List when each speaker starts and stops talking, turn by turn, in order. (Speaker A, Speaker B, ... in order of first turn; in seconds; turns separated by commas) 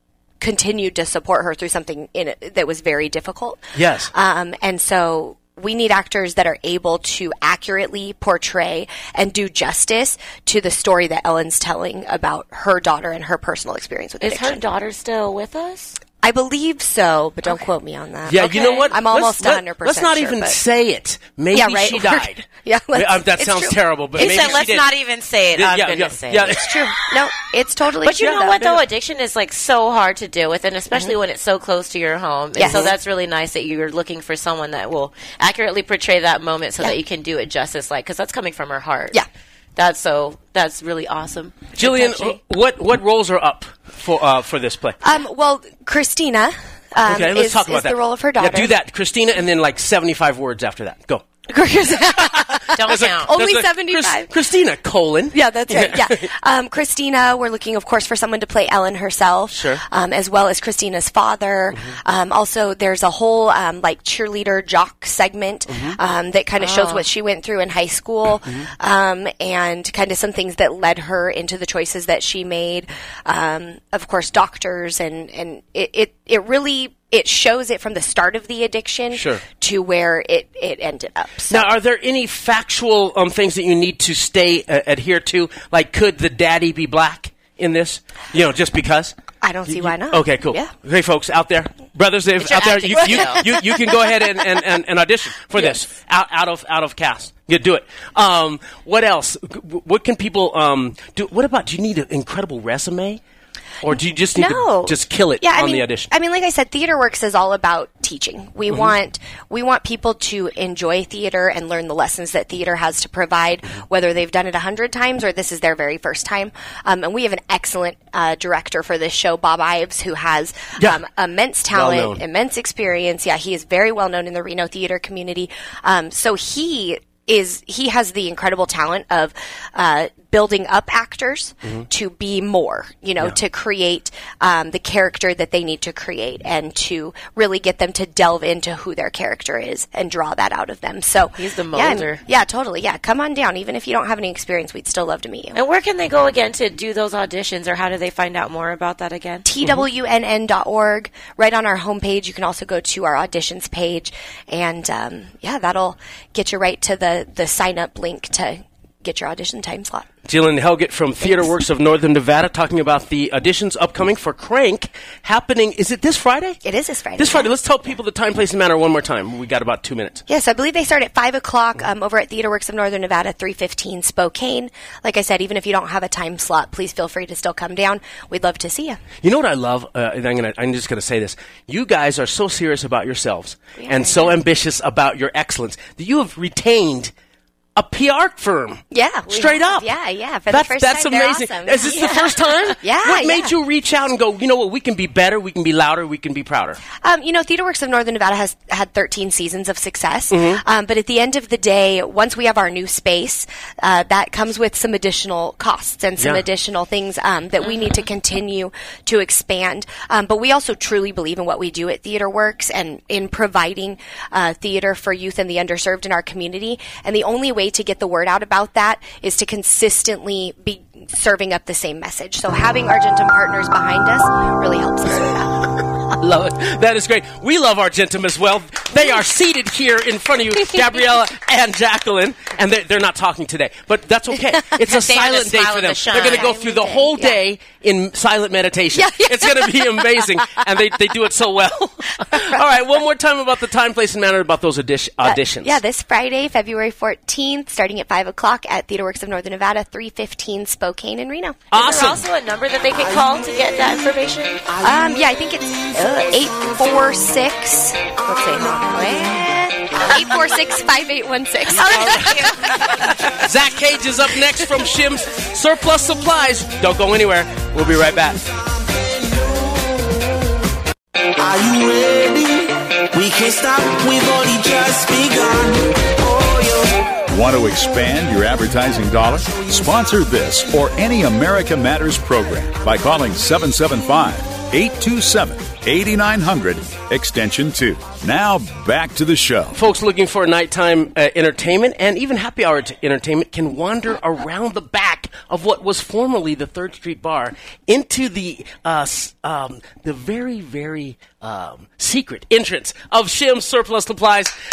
Speaker A: 0.4-3.6, Speaker B: 3.8-4.1, Speaker A: 4.1-14.6, Speaker C: 14.2-16.0, Speaker A: 16.2-20.6, Speaker B: 18.3-24.9, Speaker A: 21.5-24.6, Speaker C: 24.2-26.6, Speaker B: 25.6-26.9, Speaker A: 26.5-28.7, Speaker C: 28.0-39.2, Speaker B: 28.2-28.8, Speaker A: 32.5-33.0, Speaker C: 39.8-41.7, Speaker B: 41.8-45.0, Speaker A: 45.0-48.7, Speaker B: 47.0-51.2, Speaker A: 51.5-54.3, Speaker C: 52.8-53.3, Speaker B: 52.8-56.3, Speaker A: 55.3-81.7, Speaker B: 59.5-59.8, Speaker B: 65.7-66.0, Speaker C: 66.6-67.1, Speaker B: 79.1-79.4, Speaker B: 81.5-89.1, Speaker A: 89.4-90.7, Speaker B: 89.7-103.2, Speaker C: 92.4-93.6, Speaker B: 103.8-106.1, Speaker A: 104.4-145.6, Speaker B: 121.7-122.2, Speaker C: 141.4-142.2, Speaker C: 145.5-149.5, Speaker A: 149.4-160.1, Speaker B: 160.3-166.6, Speaker A: 161.2-161.5, Speaker A: 166.6-167.5, Speaker B: 167.2-170.2, Speaker A: 170.3-179.0, Speaker B: 179.2-187.1, Speaker A: 183.8-184.4, Speaker B: 187.8-189.9, Speaker A: 188.9-193.5, Speaker B: 190.5-196.8, Speaker A: 197.0-225.7, Speaker B: 200.3-200.6, Speaker B: 226.2-245.8, Speaker C: 234.8-237.2, Speaker A: 236.3-237.3, Speaker A: 238.9-240.1, Speaker A: 242.3-242.6, Speaker A: 245.2-251.7, Speaker B: 251.7-252.2, Speaker C: 251.7-254.7, Speaker A: 254.8-263.1, Speaker C: 261.7-263.1, Speaker B: 262.0-262.3, Speaker B: 263.3-268.5, Speaker D: 268.9-269.9, Speaker D: 271.4-277.2, Speaker E: 277.3-289.8, Speaker B: 289.7-304.5